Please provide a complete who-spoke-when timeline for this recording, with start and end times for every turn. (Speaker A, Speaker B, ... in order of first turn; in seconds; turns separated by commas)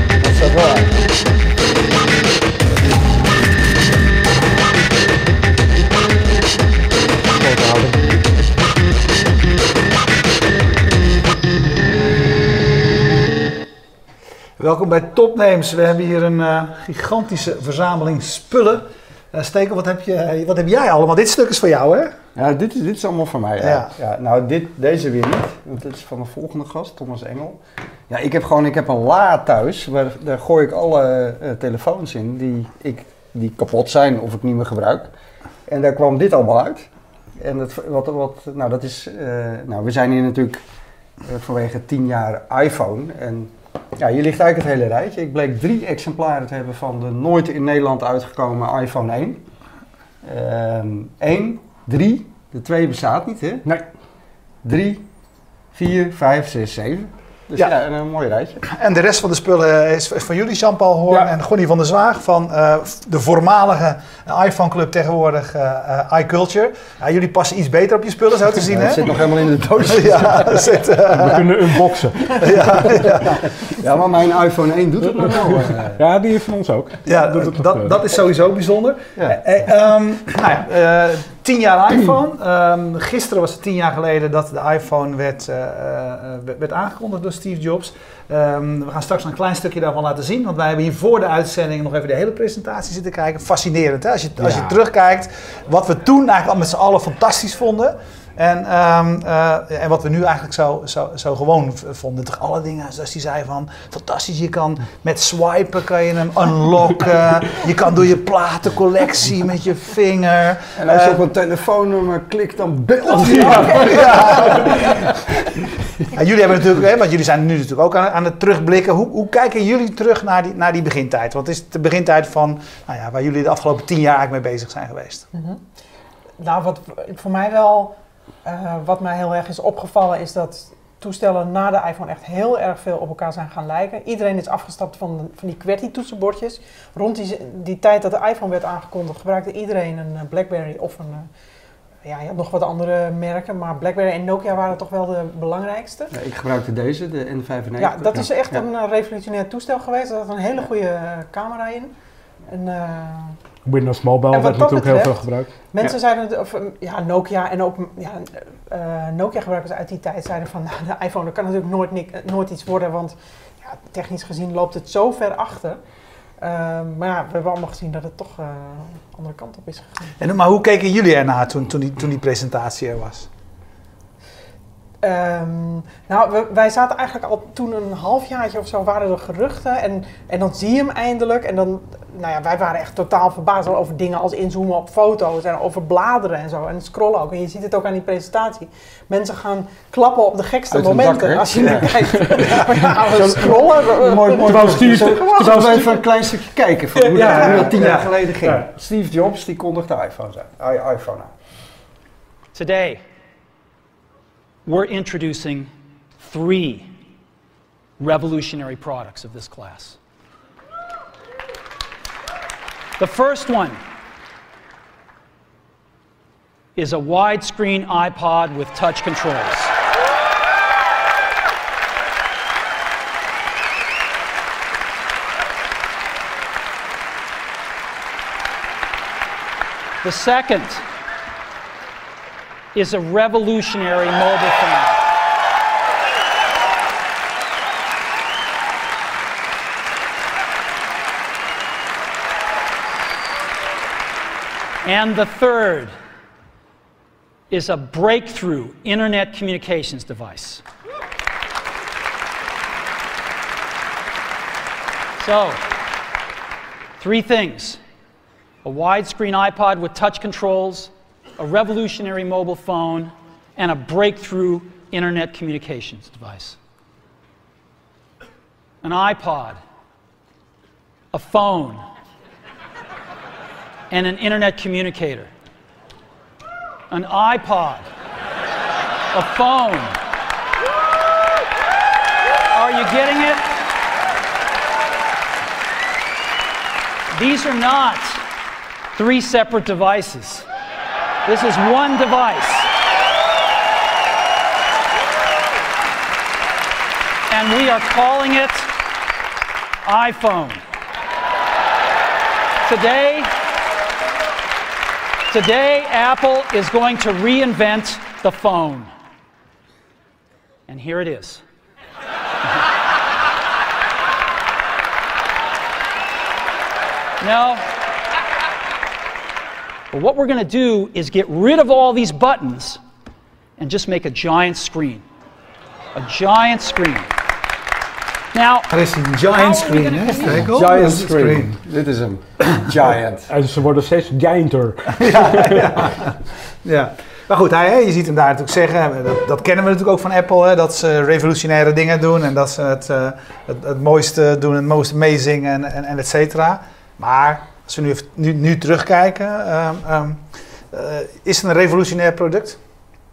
Speaker A: 0.2-1.1, Speaker A: 7.5-8.0, Speaker B: 14.6-22.1, Speaker A: 22.4-27.6, Speaker B: 23.6-23.9, Speaker A: 28.1-35.1, Speaker A: 35.7-40.6, Speaker A: 41.2-49.4, Speaker A: 50.2-53.6, Speaker A: 54.6-55.0, Speaker A: 55.7-58.6, Speaker B: 58.6-69.2, Speaker A: 68.7-70.7, Speaker B: 69.9-71.6, Speaker C: 71.1-72.8, Speaker B: 72.3-73.5, Speaker A: 73.6-76.0, Speaker C: 75.2-77.9, Speaker B: 77.1-111.2, Speaker C: 94.4-94.7, Speaker A: 110.8-115.2, Speaker C: 113.3-114.4, Speaker B: 113.5-114.8, Speaker B: 116.1-125.3, Speaker D: 125.3-125.6, Speaker D: 126.4-141.3, Speaker D: 142.0-146.1, Speaker A: 146.1-148.6, Speaker D: 147.8-151.9, Speaker D: 152.5-153.4, Speaker C: 153.7-155.5, Speaker D: 154.3-155.2, Speaker D: 155.7-165.8, Speaker D: 166.4-170.2, Speaker B: 170.2-173.3, Speaker D: 175.0-195.9, Speaker A: 190.7-201.3, Speaker C: 192.2-193.6, Speaker C: 194.3-196.0, Speaker C: 196.9-198.7, Speaker D: 197.3-197.7, Speaker E: 202.5-203.0, Speaker E: 204.7-206.9, Speaker E: 208.0-210.0, Speaker E: 213.0-213.8, Speaker E: 216.8-219.7, Speaker E: 230.0-230.8, Speaker E: 232.7-235.0, Speaker E: 244.8-245.9, Speaker E: 247.5-250.6, Speaker E: 255.2-255.6, Speaker E: 257.0-257.8, Speaker E: 258.6-266.6, Speaker E: 268.8-269.6, Speaker E: 271.1-271.8, Speaker E: 273.9-275.3, Speaker E: 276.9-277.9, Speaker E: 279.1-279.9, Speaker E: 282.5-283.6, Speaker E: 287.1-288.2, Speaker E: 288.9-290.5, Speaker E: 291.3-292.7, Speaker E: 297.3-298.7, Speaker E: 299.9-300.6, Speaker E: 302.6-303.3, Speaker E: 305.3-308.9, Speaker E: 310.7-311.4, Speaker E: 317.2-317.6, Speaker E: 319.9-322.8, Speaker E: 323.6-325.0, Speaker E: 325.9-327.1, Speaker E: 328.3-328.7, Speaker B: 328.7-331.6, Speaker E: 329.3-330.5, Speaker A: 330.4-333.3, Speaker C: 333.3-335.9, Speaker B: 334.9-352.6